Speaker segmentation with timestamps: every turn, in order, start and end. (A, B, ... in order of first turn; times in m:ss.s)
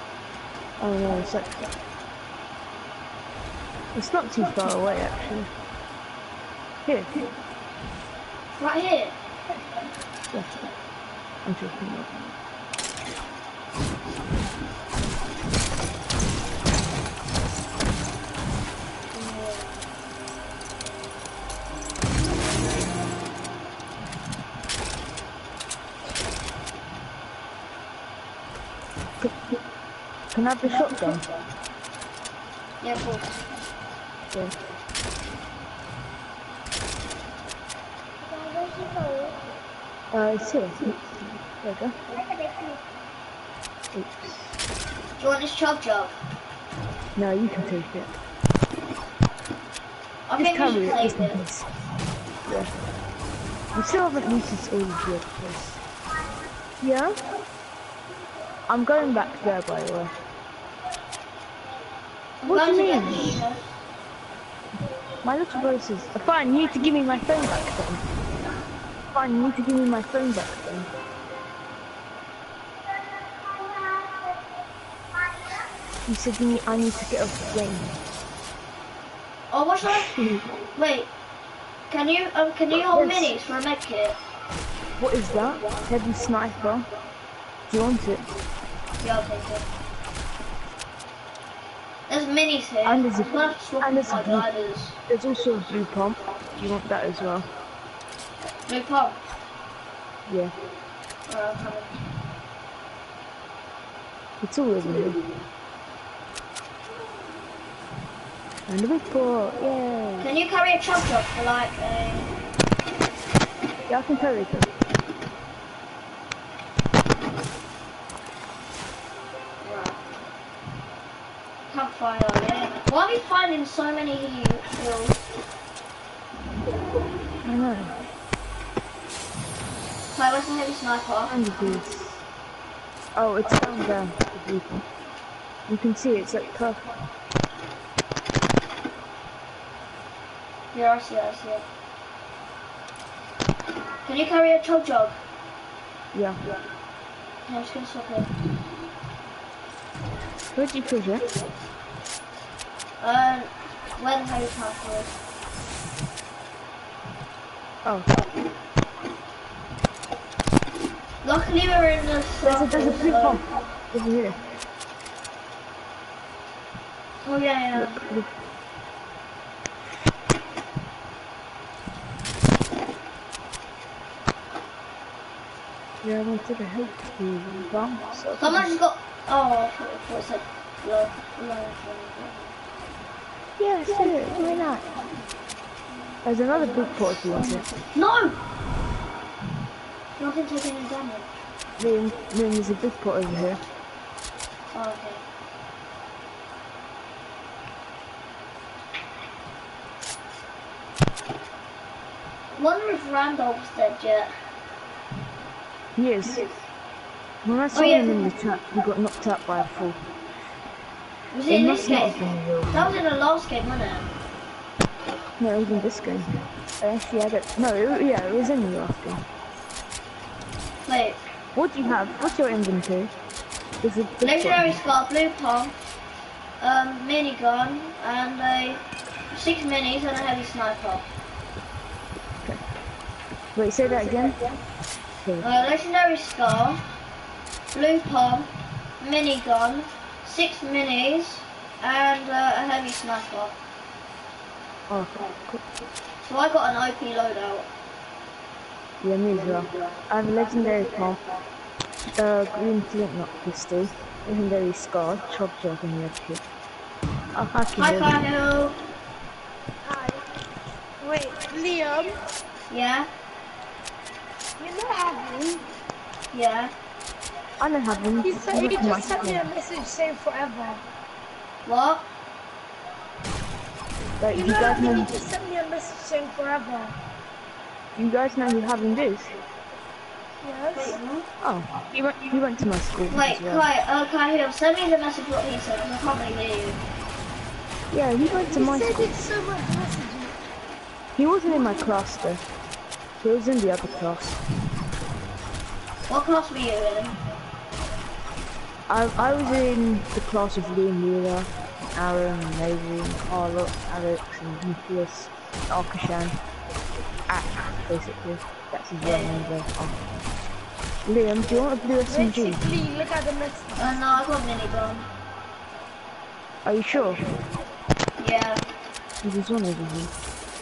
0:00.8-0:01.7 A
0:03.9-0:05.5 A
0:06.8-0:07.2 A
0:08.5-0:09.1 B
0:10.3-0:10.7 A
0:11.4-0:12.3 A
0:19.1-0:19.8 B
0:30.3-0:31.2 A
0:32.8-0:33.4 B
0:38.2-0:39.4 C
0:40.1-0:42.0 A
0:43.9-0:44.6 A
0:45.2-0:46.2 B
0:47.2-0:48.2 A
0:50.3-0:51.4 B
0:50.4-0:51.7 A
0:52.4-0:52.7 A
0:53.7-0:55.8 A
0:56.8-0:57.1 A
0:58.7-1:00.2 A
1:02.4-1:03.6 B
1:02.4-1:03.4 A
1:05.2-1:08.0 A
1:09.1-1:10.9 A
1:16.0-1:17.9 A
1:19.5-1:20.2 B
1:20.0-1:20.5 A
1:20.8-1:21.1 B
1:21.9-1:24.2 B
1:22.7-1:23.4 A
1:25.0-1:26.9 A
1:27.7-1:28.2 A
1:29.0-1:29.6 B
1:32.1-1:34.9 B
1:32.8-1:34.5 A
1:35.1-1:37.5 A
1:38.6-1:39.2 B
1:40.3-1:40.5 A
1:41.3-1:42.0 B
1:44.4-1:45.3 A
1:48.7-1:50.3 A
1:50.2-1:52.3 B
1:53.9-1:54.7 A
1:59.6-2:00.0 B
2:01.7-2:05.2 B
2:07.4-2:08.0 A
2:10.1-2:11.4 B
2:11.3-2:12.2 A
2:13.2-2:14.9 A
2:15.7-2:16.8 A
2:20.7-2:21.6 B
2:24.0-2:25.2 B
2:26.1-2:26.4 A
2:27.5-2:28.3 B
2:30.5-2:31.3 A
2:33.0-2:35.1 B
2:37.8-2:38.1 A
2:41.2-2:43.4 B
2:42.4-2:44.4 A
2:47.2-2:48.0 B
2:47.8-2:48.3 A
2:56.0-2:58.7 A
2:58.4-3:02.5 B
3:03.6-3:04.9 A
3:06.2-3:07.7 A
3:07.8-3:08.4 B
3:10.2-3:11.3 B
3:11.8-3:13.6 A
3:14.7-3:15.2 B
3:22.5-3:24.3 B
3:26.0-3:26.5 A
3:27.4-3:30.0 A
3:27.7-3:28.3 B
3:31.3-3:34.1 B
3:31.5-3:32.9 A
3:35.4-3:39.2 A
3:40.8-3:41.2 B
3:41.5-3:43.1 A
3:43.8-3:44.8 A
3:44.2-3:45.8 B
3:46.6-3:51.0 B
3:53.5-3:54.4 A
3:55.4-3:56.8 B
3:57.7-4:03.6 B
4:04.9-4:05.6 A
4:06.2-4:07.7 B
4:09.0-4:11.2 A
4:12.2-4:16.4 A
4:17.3-4:18.2 A
4:17.8-4:18.8 B
4:19.8-4:20.2 C
4:21.0-4:22.2 C
4:22.7-4:23.1 B
4:24.6-4:25.7 C
4:26.3-4:26.7 B
4:27.6-4:29.5 A
4:28.2-4:30.8 C
4:31.6-4:32.0 B
4:34.2-4:35.1 A
4:34.3-4:37.0 C
4:38.0-4:39.4 A
4:40.4-4:41.0 C
4:40.8-4:41.3 B
4:41.4-4:43.6 A
4:43.1-4:46.8 B
4:47.9-4:49.1 A
4:48.4-4:50.4 C
4:51.2-4:52.4 A
4:53.2-4:54.4 A
4:56.1-4:57.2 B
4:58.9-5:06.4 A
5:07.3-5:10.0 A
5:09.0-5:09.4 B
5:11.0-5:12.6 A
5:12.0-5:14.2 C
5:13.8-5:15.1 B
5:16.6-5:17.2 A
5:18.2-5:18.6 B
5:19.2-5:20.1 A